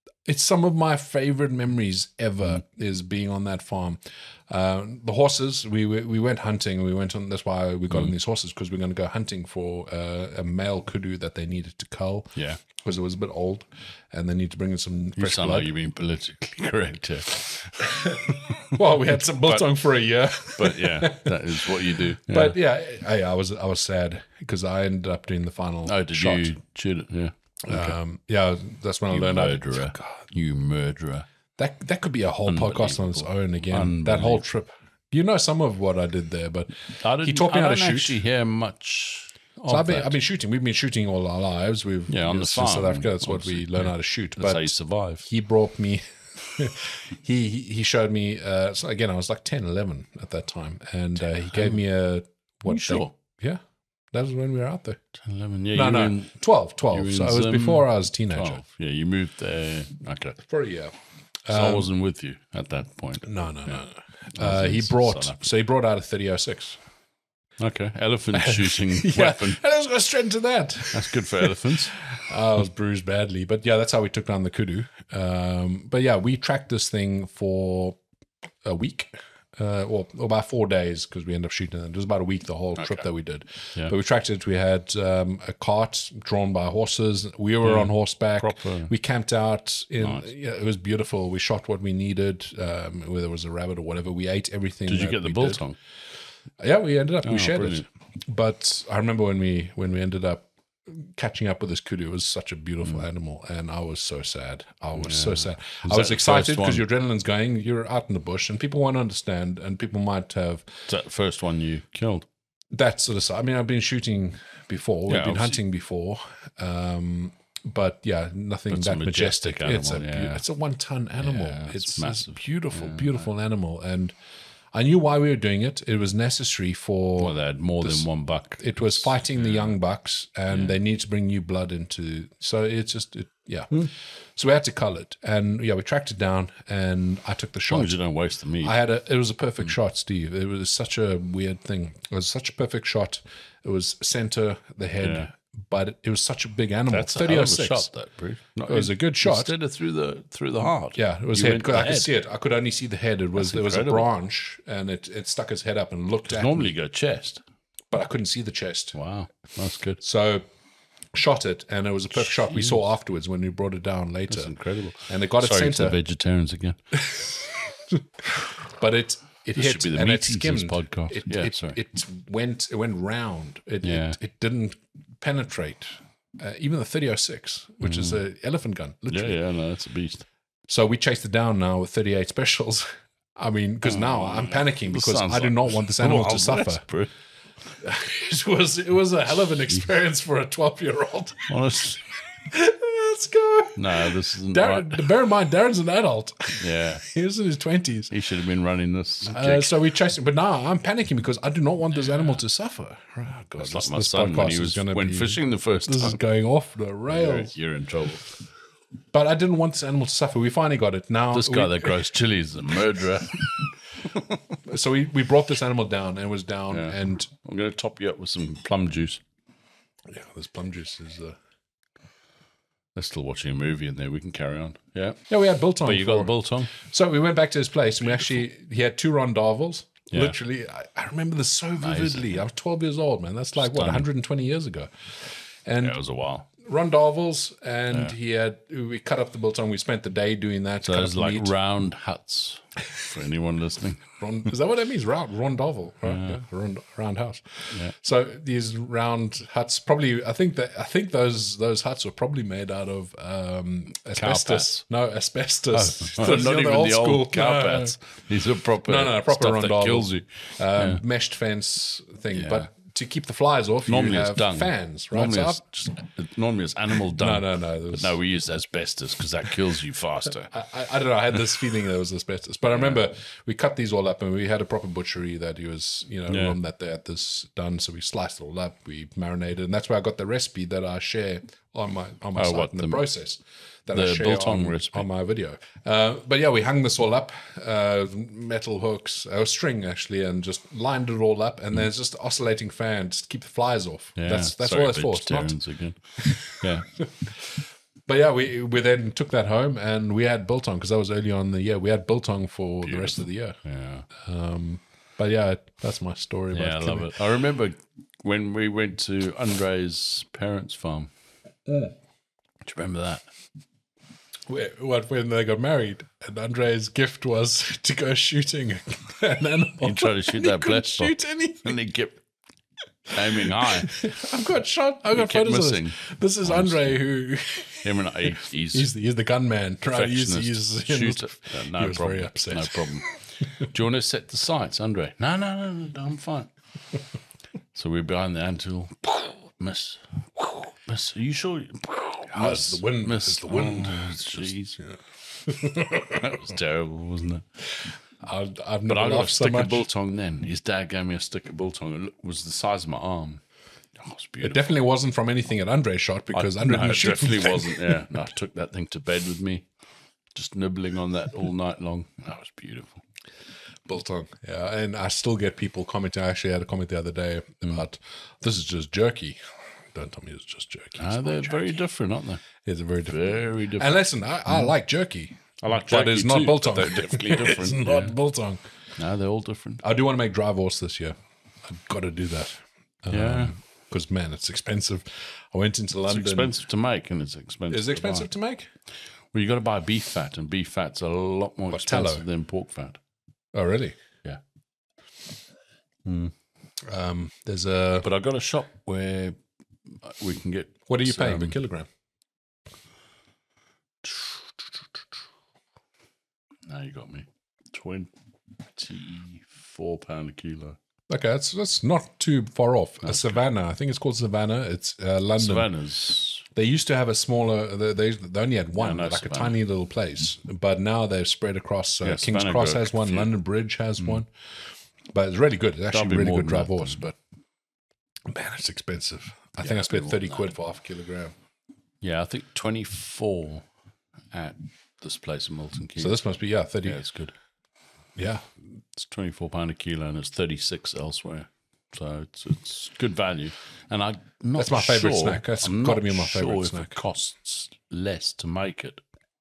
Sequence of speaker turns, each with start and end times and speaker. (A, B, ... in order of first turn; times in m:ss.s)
0:00.2-0:15.7 A
0:15.2-0:18.7 B
0:17.8-0:26.6 A
0:20.6-0:22.6 B
0:25.8-0:28.0 B
0:27.7-0:30.2 A
0:29.1-0:31.2 B
0:31.6-0:38.2 A
0:32.5-0:34.4 B
0:37.0-0:40.2 B
0:39.7-0:44.7 A
0:42.1-0:45.3 B
0:45.2-0:53.6 A
0:51.5-0:51.8 B
0:52.6-0:53.1 B
0:54.1-0:55.0 A
0:55.2-0:56.3 B
0:55.7-0:58.6 A
0:56.9-1:00.4 B
1:00.4-1:00.9 A
1:01.5-1:01.9 A
1:01.5-1:03.8 B
1:03.2-1:06.8 A
1:04.4-1:05.4 B
1:07.6-1:09.6 B
1:08.3-1:18.0 A
1:10.9-1:12.0 B
1:18.6-1:35.6 A
1:22.8-1:23.0 B
1:27.6-1:28.9 B
1:34.9-1:35.8 B
1:36.6-1:50.7 A
1:37.2-1:37.8 B
1:45.0-1:46.8 B
1:50.9-1:52.2 B
1:52.7-2:04.1 A
1:55.1-1:55.6 B
1:58.7-2:00.4 B
2:01.2-2:03.2 B
2:04.7-2:08.0 A
2:07.2-2:09.7 B
2:08.6-2:17.9 A
2:10.5-2:10.8 B
2:17.7-2:18.8 B
2:18.6-2:27.9 A
2:25.0-2:25.3 B
2:26.9-2:32.1 B
2:28.7-2:29.5 A
2:31.0-2:36.7 A
2:33.4-2:34.1 B
2:36.3-2:37.4 B
2:37.9-2:39.0 A
2:38.9-2:40.0 B
2:40.0-2:40.4 A
2:41.1-2:44.5 A
2:42.2-2:42.8 B
2:44.3-2:46.8 B
2:45.1-2:46.0 A
2:47.0-2:59.4 A
2:49.6-2:51.8 B
2:53.8-2:54.2 B
2:57.8-2:58.2 B
2:59.1-3:00.2 B
3:00.7-3:06.8 A
3:03.8-3:07.1 B
3:07.8-3:11.5 A
3:11.5-3:12.0 B
3:12.4-3:18.1 A
3:13.8-3:15.1 B
3:16.6-3:17.0 B
3:18.1-3:19.7 B
3:19.2-3:27.5 A
3:22.1-3:22.4 B
3:23.6-3:26.2 B
3:27.1-3:28.4 B
3:29.1-3:31.9 A
3:31.3-3:34.2 B
3:34.6-3:37.3 A
3:36.7-3:39.2 B
3:40.1-3:41.4 A
3:43.0-3:45.2 B
3:45.3-3:54.9 A
3:45.8-3:46.7 B
3:51.8-3:52.4 B
3:53.6-3:54.0 B
3:55.6-3:56.0 A
3:55.8-3:56.5 B
3:56.6-4:01.5 A
4:00.8-4:04.1 B
4:04.2-4:18.0 A
4:06.0-4:06.4 B
4:14.2-4:14.8 B
4:15.7-4:20.2 B
4:18.8-4:25.6 A
4:20.8-4:21.0 B
4:22.3-4:22.7 B
4:23.9-4:30.5 B
4:27.2-4:28.1 A
4:30.5-4:55.6 A
4:36.3-4:36.6 B
4:42.4-4:43.0 B
4:43.9-4:45.1 B
4:54.2-4:56.9 B
4:56.2-4:57.3 A
4:58.1-5:03.6 A
5:02.8-5:04.1 B
5:04.2-5:07.1 A
5:06.5-5:11.1 B
5:12.6-5:13.2 B
5:14.5-5:21.8 A
5:19.8-5:22.2 B
5:23.1-5:24.0 B
5:23.4-5:33.2 A
5:25.1-5:27.0 B
5:27.8-5:28.9 B
5:29.8-5:33.1 B
5:33.6-5:36.5 B
5:37.7-5:44.8 B
5:42.3-5:46.3 A
5:45.9-5:47.4 B
5:48.2-5:49.8 A
5:48.9-5:53.4 B
5:54.0-5:54.7 B
5:54.4-5:58.0 A
5:56.3-5:59.6 B
6:00.3-6:03.0 B
6:03.9-6:09.4 A
6:09.9-6:11.8 A
6:11.0-6:12.4 B
6:12.6-6:18.6 A
6:13.1-6:14.0 B
6:15.6-6:18.2 B
6:19.0-6:19.8 B
6:19.8-6:21.1 A
6:21.6-6:26.5 A
6:23.1-6:23.5 B
6:26.1-6:28.3 B
6:27.7-6:28.7 A
6:29.3-6:33.0 B
6:31.7-6:32.2 A
6:33.5-6:34.0 A
6:36.0-6:36.3 B
6:36.9-6:38.0 A
6:38.0-6:39.4 B
6:40.0-6:41.6 B
6:40.9-6:41.9 A
6:44.0-6:44.7 B
6:46.7-6:48.1 B
6:48.7-6:50.8 B
6:51.1-6:55.7 A
6:53.0-6:53.4 B
6:55.4-6:56.4 B
6:56.5-7:04.3 A
6:58.8-6:59.6 B
7:02.0-7:03.3 B
7:05.1-7:07.2 A
7:05.9-7:07.0 B
7:08.3-7:11.3 A
7:09.6-7:10.5 B
7:12.0-7:13.6 B
7:14.3-7:16.2 B
7:16.0-7:17.0 A
7:16.8-7:17.3 B
7:18.2-7:18.4 A
7:19.0-7:29.0 B
7:24.6-7:26.9 A